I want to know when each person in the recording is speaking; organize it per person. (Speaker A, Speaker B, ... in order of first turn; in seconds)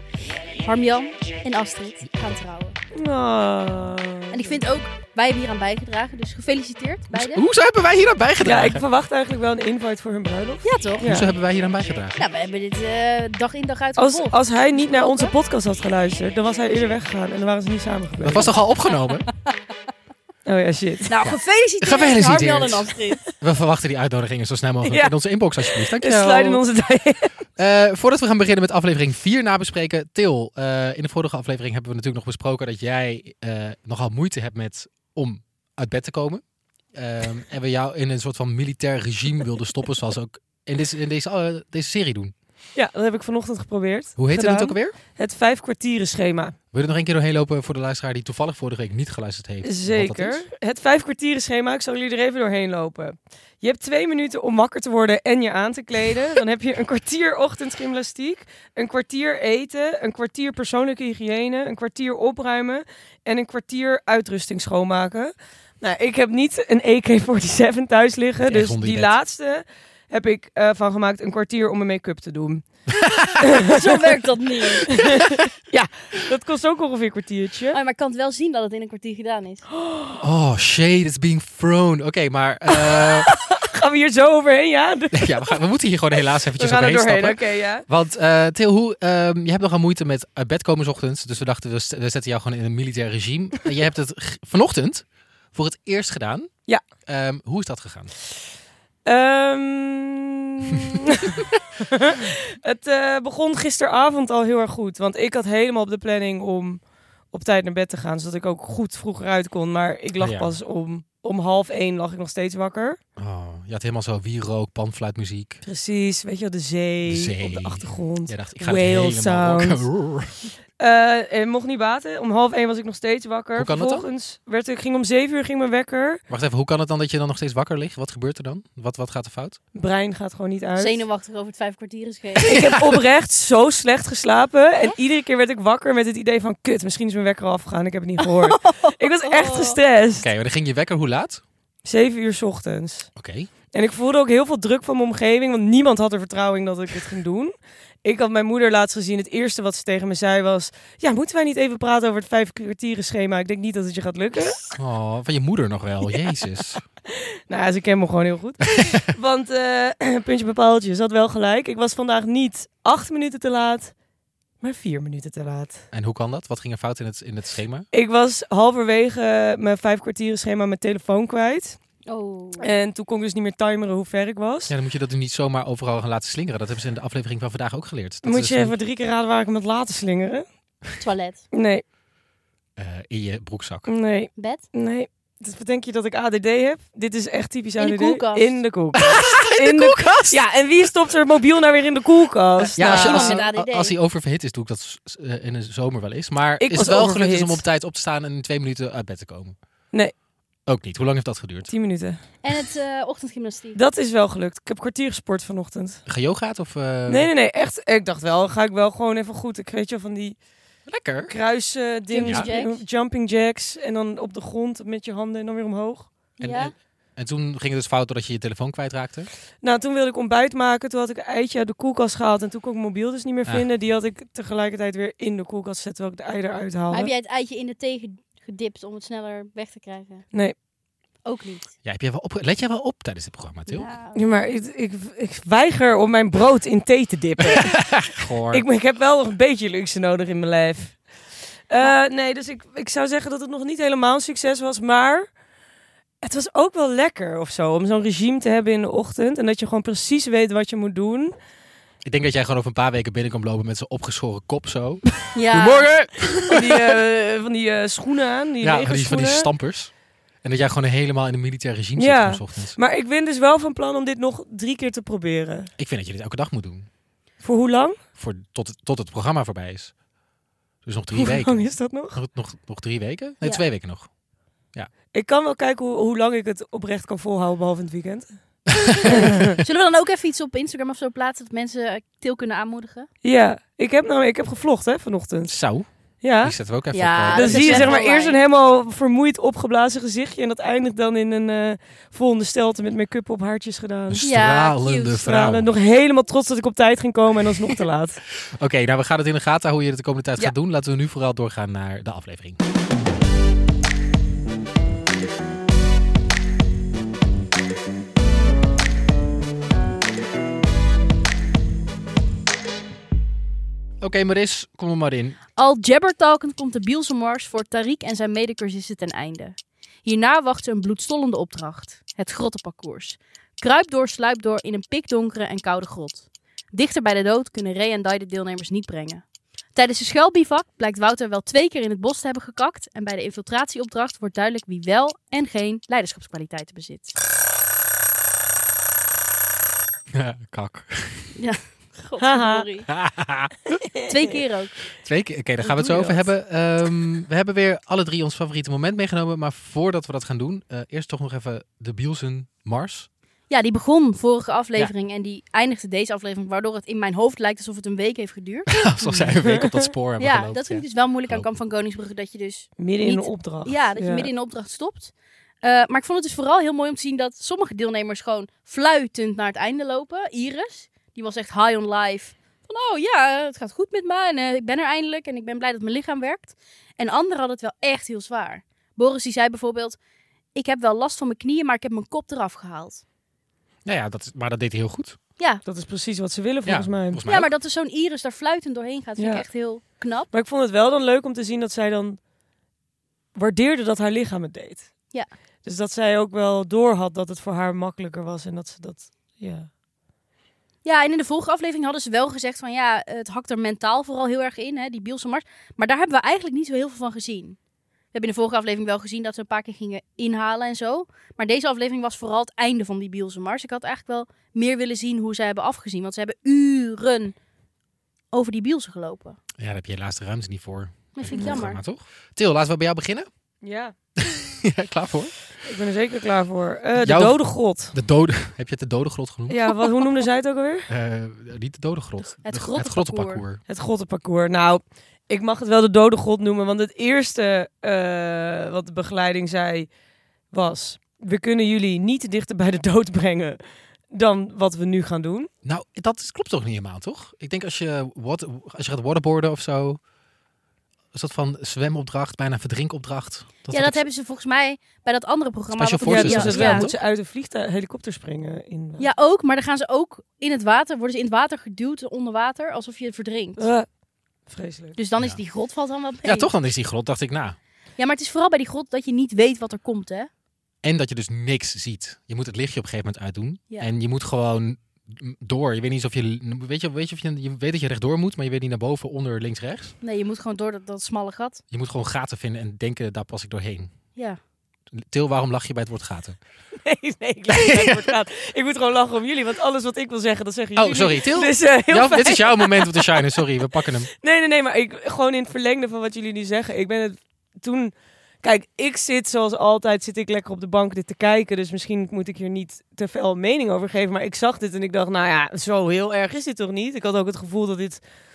Speaker A: 0.6-2.8, 4.3-7.4, 10.6-11.1, 12.2-15.3, 21.1-23.2, 73.6-75.0, 77.7-79.7, 130.8-132.7, 138.4-139.8, 172.1-172.7, 181.0-181.4, 184.4-184.6, 187.8-188.5, 192.8-193.9, 202.4-203.8, 212.1-212.8, 216.4-216.7, 226.9-230.3, 231.2-231.7, 233.7-234.5, 255.3-255.9, 279.6-283.1, 286.9-288.4, 294.2-295.2, 315.6-329.2, 329.8-337.1, 341.3-342.9, 344.0-344.8, 353.5-359.2, 360.2-380.0, 380.6-383.0, 385.4-385.6, 387.2-390.3, 400.9-407.6, 408.1-417.4, 418.3-419.4, 421.1-421.8, 432.4-433.4, 453.7-456.9, 459.0-463.7, 465.0-466.5, 468.0-470.3, 480.0-481.6
Speaker B: 2.0-2.4, 7.1-8.8, 11.0-12.2, 18.2-19.3, 21.2-22.9, 23.4-26.6, 27.6-42.3, 44.2-45.0, 46.7-50.4, 68.4-69.2, 73.0-73.4, 80.2-83.3, 85.1-96.5, 97.1-98.1, 110.2-110.5, 113.2-115.6, 117.1-120.5, 123.6-124.1, 126.3-129.6, 132.5-133.0, 140.1-141.4, 143.2-143.5, 154.7-156.8, 165.9-167.9, 174.7-178.8, 182.8-183.9, 189.0-190.4, 192.8-199.6, 200.7-201.7, 206.1-207.3, 210.9-211.4, 216.4-219.3, 231.8-233.9, 237.5-238.7, 252.0-257.0, 258.6-259.9, 260.4-262.8, 265.8-266.9, 268.2-269.9, 270.8-274.1, 278.9-279.6, 285.5-285.9, 286.4-288.0, 294.1-295.7, 298.6-302.6, 314.0-315.4, 340.1-341.3, 342.9-343.5, 345.0-353.1, 358.7-361.5, 383.9-385.2, 386.6-387.5, 419.6-423.3, 424.2-425.4, 427.0-427.4, 427.9-429.9, 430.9-433.6, 445.6-450.0, 451.1-454.0, 455.8-457.0, 466.2-467.6, 470.8-479.9, 481.7-483.9, 484.9-486.4, 487.5-488.1, 490.8-494.1
Speaker C: 2.9-4.6, 8.4-11.3, 14.0-18.5, 20.4-21.1, 24.9-27.3, 42.8-46.6, 49.6-72.7, 73.5-74.2, 74.9-77.8, 79.8-80.2, 82.7-85.6, 86.6-87.8, 99.1-113.0, 115.6-119.9, 120.8-126.2, 129.7-131.0, 132.4-140.3, 141.8-143.1, 143.7-147.5, 148.0-154.6, 157.1-163.9, 164.6-165.8, 167.9-171.8, 172.6-174.7, 178.2-180.5, 181.5-181.8, 183.9-193.4, 196.6-197.6, 201.7-202.2, 203.8-206.0, 207.1-210.4, 211.3-216.1, 219.6-227.1, 234.1-241.1, 241.7-245.3, 246.2-251.3, 256.5-259.5, 262.0-265.7, 267.4-268.0, 271.1-272.2, 275.1-278.4, 279.1-279.6, 283.2-285.6, 286.2-286.6, 287.3-294.3, 295.2-298.2, 342.2-342.6, 343.9-344.3, 345.7-346.2, 359.1-359.9, 362.8-364.3, 385.6-387.2, 389.2-389.5, 390.3-392.2, 393.4-394.9, 395.6-399.7, 421.3-421.6, 423.6-423.9, 425.6-427.9, 429.5-430.9, 433.7-439.9, 440.5-445.5, 456.1-459.1, 463.6-463.9, 464.5-465.0, 486.8-493.4, 494.1-508.0